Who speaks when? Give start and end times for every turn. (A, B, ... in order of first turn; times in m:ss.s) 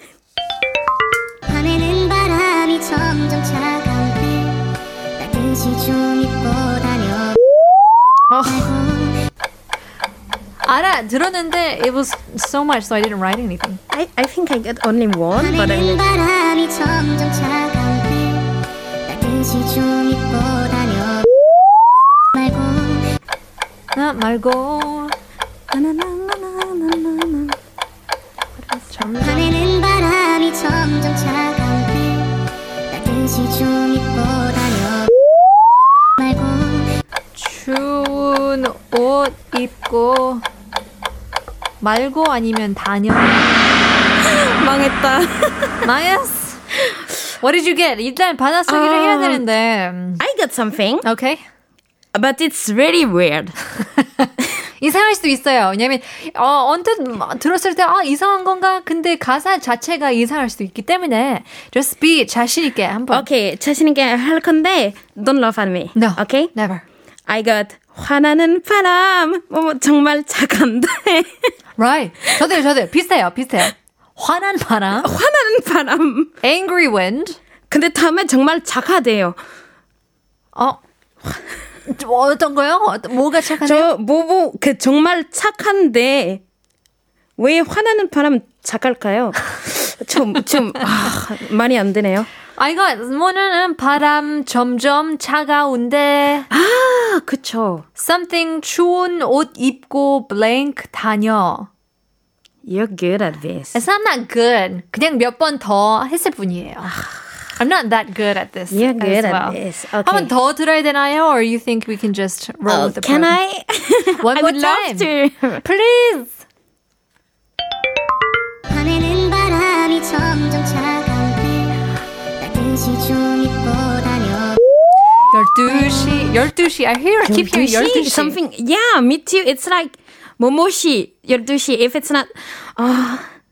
0:01.5-0:07.4 A
0:08.3-0:08.7 B
0:08.6-0:09.2 A
0:10.6-0:13.8 B
0:13.9-0:16.0 C
0:15.4-0:21.3 A
0:22.3-0:23.1 A
0:24.0-0:25.2 B
0:25.7-0:27.6 C
0:28.6-0:29.6 B
0:29.2-0:35.1 A
0:36.2-0:36.9 A
0:37.3-0:40.4 B
0:41.8-0:43.6 B
0:44.2-0:45.9 C
0:45.8-0:46.6 B
0:47.4-0:50.2 B
0:48.7-0:49.4 C
0:50.2-0:51.0 C
0:51.0-0:51.4 B
0:52.1-0:53.6 C
0:54.8-1:03.3 B
1:03.1-1:06.5 C
1:06.0-1:06.8 B
1:07.3-1:11.5 C
1:11.8-1:15.1 B
1:15.0-1:16.3 C
1:16.4-1:17.4 B
1:17.7-1:19.4 C
1:20.6-1:20.8 B
1:21.9-1:23.9 B
1:23.4-1:26.4 C
1:27.4-1:32.3 C
1:32.6-1:36.5 B
1:36.5-1:37.8 C
1:38.0-1:41.7 B
1:42.6-1:43.8 C
1:43.7-1:47.0 B
1:47.6-1:53.4 B
1:48.7-1:50.3 C
1:52.7-1:55.6 C
1:54.2-1:55.1 B
1:55.6-1:56.4 B
1:58.7-2:01.8 A
2:02.4-2:04.6 A
2:05.3-2:08.4 B
2:05.7-2:06.1 A
2:07.2-2:13.2 C